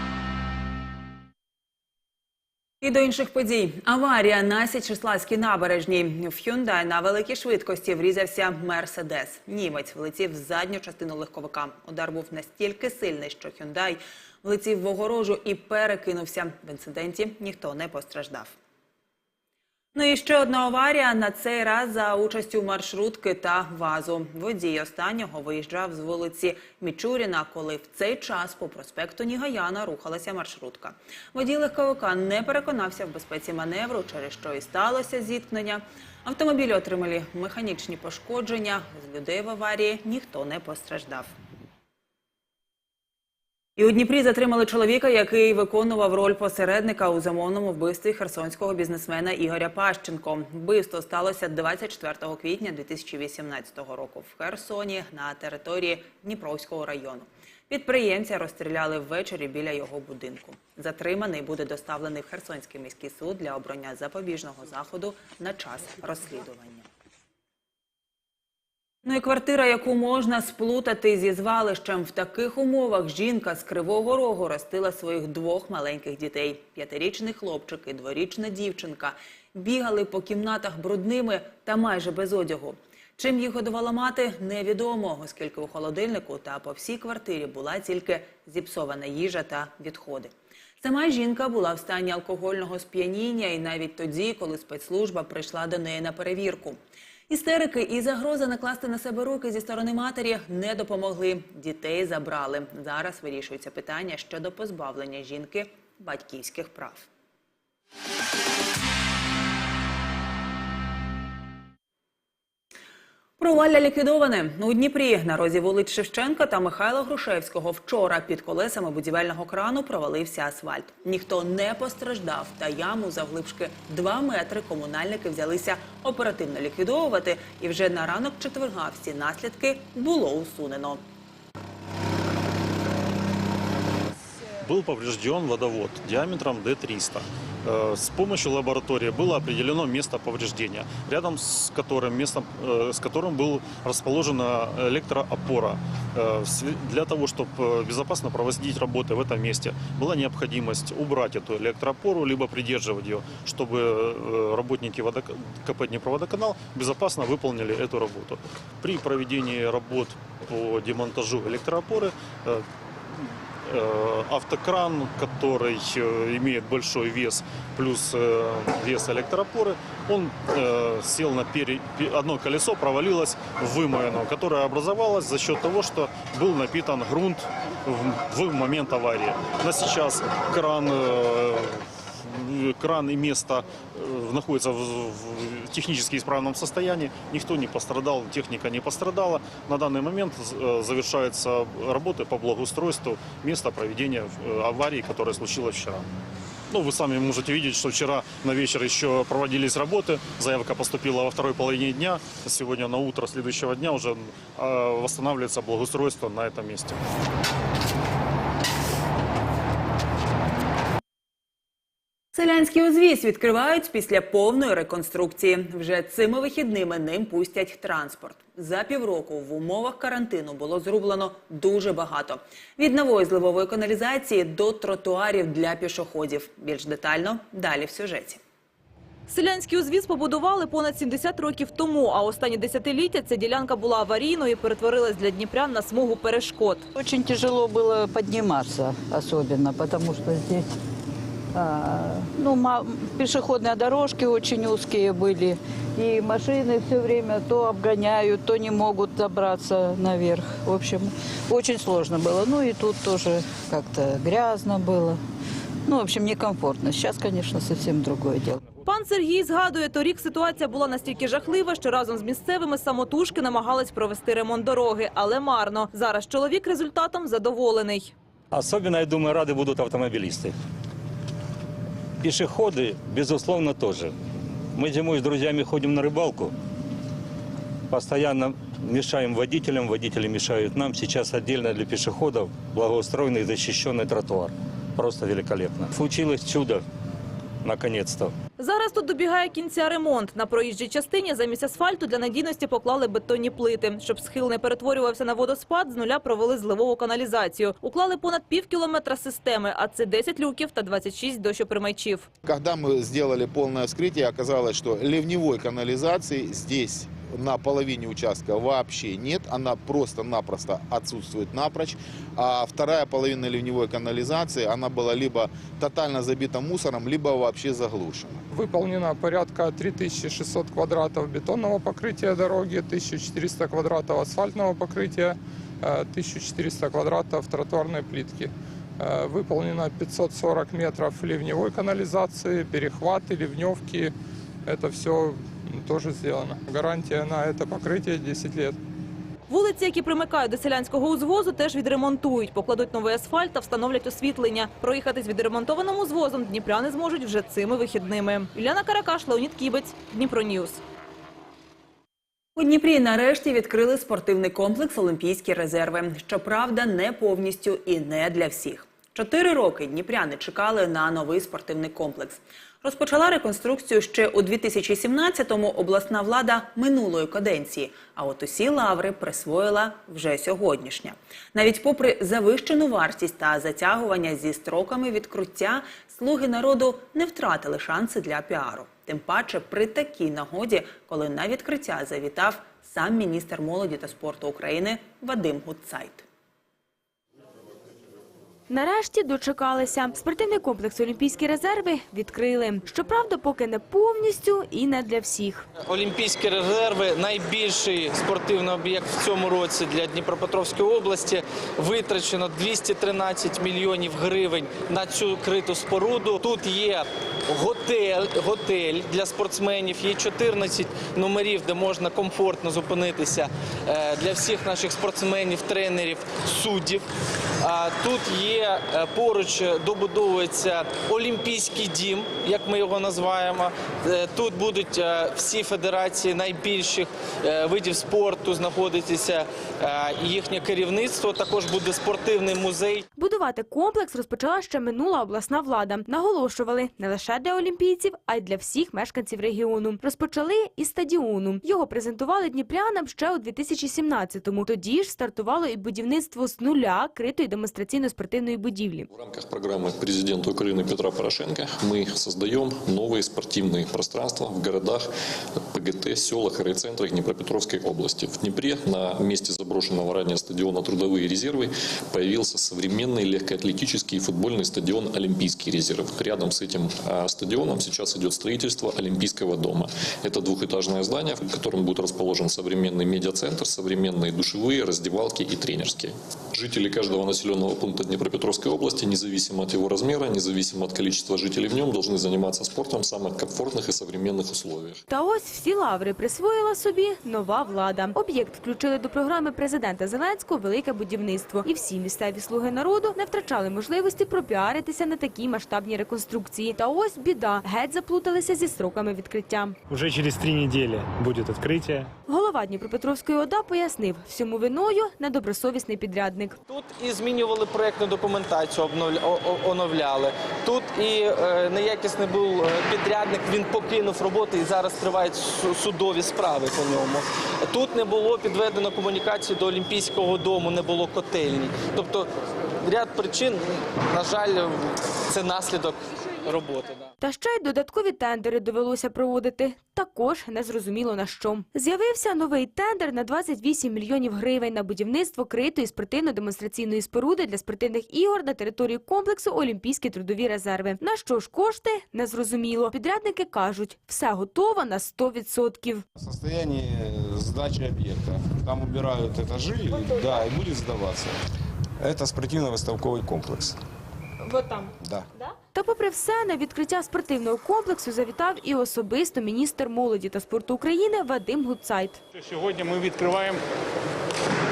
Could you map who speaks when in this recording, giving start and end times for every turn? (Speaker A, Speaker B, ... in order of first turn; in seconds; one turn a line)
Speaker A: 2.8-18.6
Speaker A: 19.9-41.4
Speaker A: 43.8-66.9
Speaker A: 69.0-96.8
Speaker A: 97.3-107.1
Speaker A: 113.4-131.0
Speaker B: 134.6-196.1
Speaker B: 196.7-207.0
Speaker A: 212.3-228.4
Speaker C: 229.3-236.8
Speaker D: 236.9-240.7
Speaker D: 241.6-255.2
Speaker D: 255.9-258.6
Speaker C: 258.9-268.1
Speaker E: 268.6-270.5
Speaker E: 272.2-274.1
Speaker E: 274.8-276.5
Speaker E: 277.9-286.8
Speaker E: 287.7-288.3
Speaker C: 288.6-302.3
Speaker F: 302.4-318.4
Speaker G: 318.5-334.1
Speaker G: 334.7-338.8
Speaker C: 339.5-350.8
Speaker A: 352.6-386.2
Speaker H: 388.7-395.7
Speaker I: 395.8-417.1
Speaker I: 417.6-433.1
Speaker H: 433.1-449.1
Speaker J: 449.1-455.1
Speaker J: 455.7-485.0
Speaker H: 485.1-499.8
Speaker K: 499.9-502.1
Speaker H: 502.3-506.6
Speaker I: 506.7-522.3
Speaker I: 522.8-527.1
Speaker H: 527.2-546.0
Speaker L: 546.2-551.4
Speaker L: 552.0-553.8
Speaker H: 554.6-554.9
Speaker L: 555.0-555.3
Speaker H: 555.7-562.2
Speaker K: 562.3-563.6